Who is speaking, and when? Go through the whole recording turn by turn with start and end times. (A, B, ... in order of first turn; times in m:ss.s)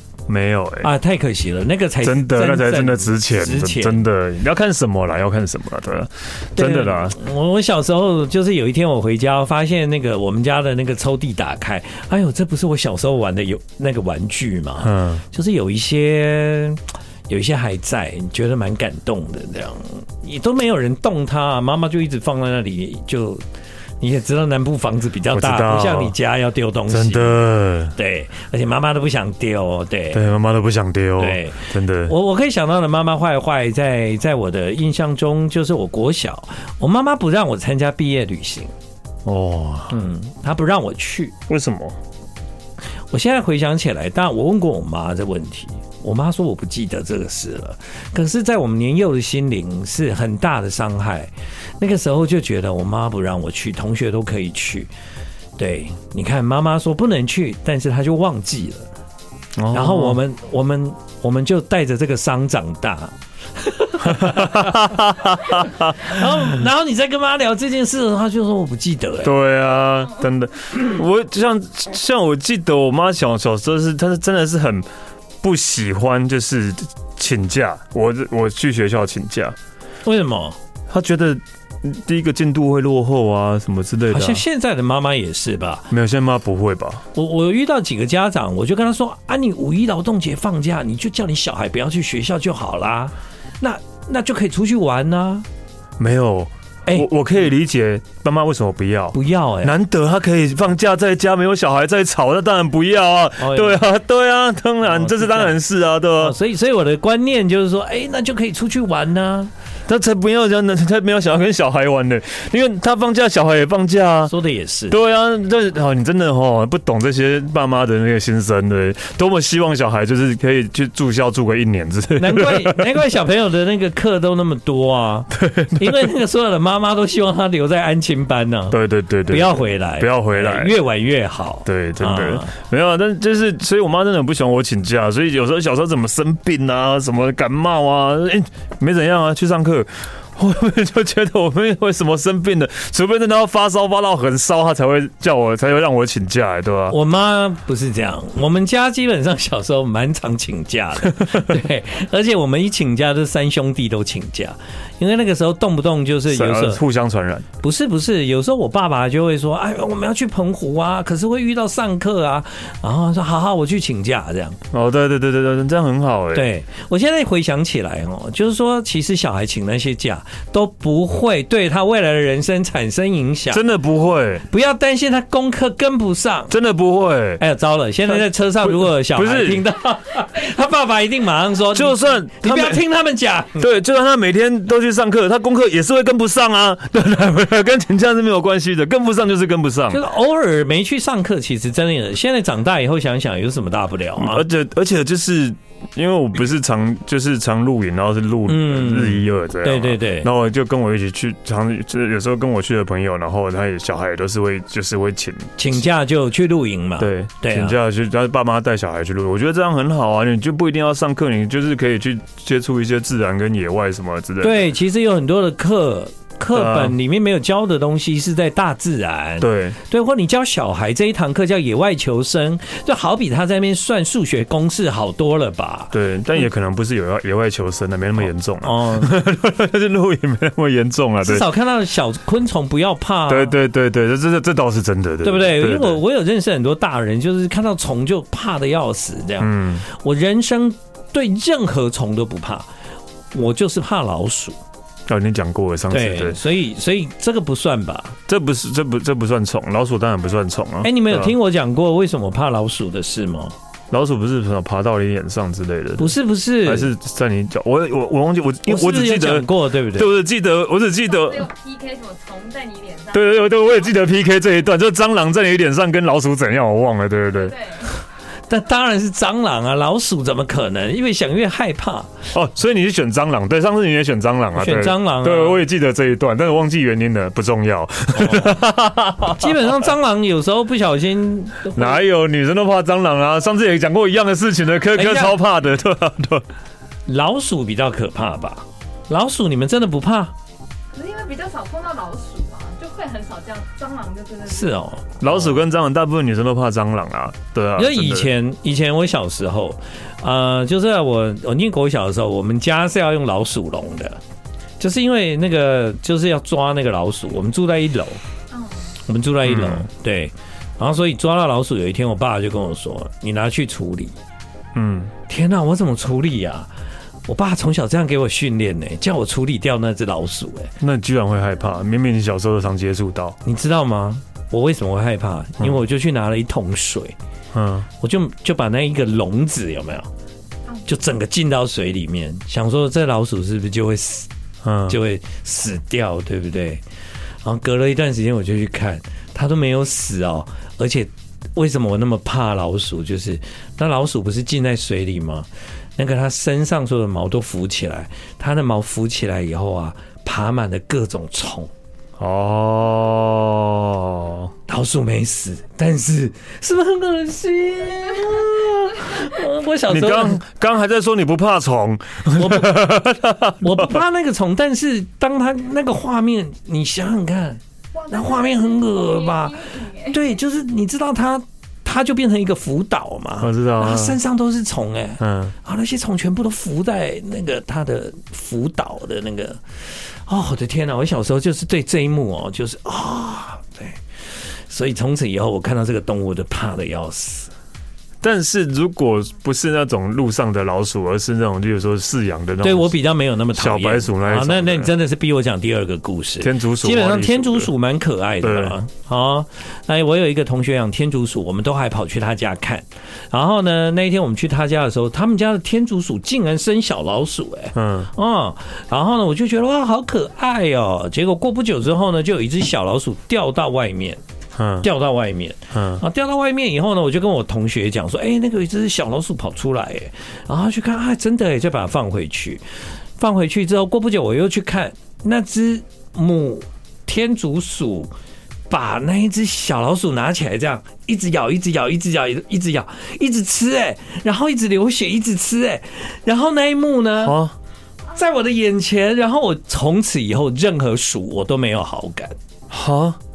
0:00.3-0:00.9 A
0:00.8-0:04.0 B
0:02.0-0:07.2 A
0:06.6-0:23.4 B
0:14.8-0:15.2 A
0:24.0-0:30.2 B
0:25.3-0:26.2 A
0:26.9-0:27.9 A
0:30.1-0:32.1 A
0:31.2-0:38.7 B
0:39.2-0:40.0 A
0:39.9-0:41.3 B
0:41.5-0:42.0 A
0:43.1-0:54.9 B
0:55.6-0:58.9 B
0:59.6-1:00.2 A
0:59.7-1:04.9 B
1:04.0-1:06.2 A
1:05.5-1:09.3 B
1:09.2-1:14.9 A
1:15.4-1:19.6 A
1:20.0-1:20.6 B
1:20.9-1:24.4 A
1:24.1-1:25.9 B
1:25.9-1:27.0 A
1:27.1-1:35.4 B
1:36.0-1:46.4 A
1:39.1-1:39.7 B
1:43.4-1:43.8 B
1:44.8-1:45.5 B
1:46.2-1:49.5 B
1:49.9-1:54.3 A
1:54.3-1:55.0 B
1:54.9-2:03.0 A
2:02.2-2:12.5 B
2:05.3-2:06.1 A
2:08.7-2:10.8 A
2:11.6-2:27.0 A
2:26.9-2:36.8 B
2:36.3-2:37.4 A
2:37.6-2:44.6 B
2:44.7-2:46.5 A
2:46.3-2:53.6 B
2:53.5-2:54.4 A
2:54.5-2:56.5 B
2:56.5-2:57.4 A
2:57.4-3:03.7 B
2:58.0-2:59.6 A
3:01.7-3:02.8 A
3:03.6-3:10.0 A
3:09.9-3:14.4 B
3:14.2-3:25.8 A
3:18.5-3:20.3 B
3:25.6-3:27.8 B
3:27.0-3:34.7 A
3:34.4-3:45.9 B
3:36.5-3:37.0 A
3:39.4-3:39.8 A
3:45.9-3:51.4 A
3:48.6-3:49.1 B
3:51.2-3:53.5 B
3:53.3-3:56.0 A
3:55.2-4:02.7 B
3:59.4-3:59.8 A
4:03.3-4:04.6 B
4:05.1-4:06.4 A
4:05.9-4:08.2 B
4:08.3-4:11.4 A
4:10.8-4:13.5 B
4:13.9-4:21.5 A
4:16.0-4:16.9 B
4:18.6-4:20.1 B
4:21.1-4:23.6 C
4:23.1-4:27.6 A
4:27.4-4:27.8 C
4:28.5-4:32.1 B
4:32.3-4:39.9 A
4:34.6-4:35.6 B
4:38.2-4:38.6 B
4:39.4-4:42.0 B
4:41.7-4:46.4 A
4:44.9-4:45.4 B
4:47.1-4:50.3 B
4:50.9-4:54.8 C
4:54.5-4:55.5 B
4:55.2-4:58.3 A
4:57.8-5:04.2 B
5:04.8-5:08.2 B
5:08.5-5:08.9 C
5:09.1-5:14.2 B
5:09.4-5:09.8 A
5:14.7-5:15.1 A
5:15.3-5:16.7 B
5:17.3-5:20.7 B
5:20.8-5:23.4 A
5:23.4-5:27.1 B
5:27.5-5:27.9 A
5:28.0-5:30.1 B
5:30.9-5:34.3 B
5:34.6-5:35.0 A
5:34.9-5:36.8 B
5:37.4-5:51.7 B
5:52.2-5:54.5 A
5:54.7-6:00.4 B
5:59.9-6:04.0 A
6:02.3-6:03.0 B
6:03.6-6:24.0 B
6:07.9-6:10.4 C
6:13.4-6:14.2 A
6:15.2-6:15.5 A
6:24.7-6:27.5 B
6:28.2-6:33.0 A
6:32.6-6:54.2 B
6:33.5-6:34.9 A
6:36.4-6:37.7 A
6:38.4-6:38.8 A
6:47.7-6:48.1 A
6:54.6-6:54.9 A
6:54.8-7:02.6 B
6:55.7-6:56.0 A
7:03.2-7:08.1 B
7:08.7-7:17.4 B
7:17.2-7:17.5 A
7:18.1-7:22.4 B
7:22.7-7:23.2 A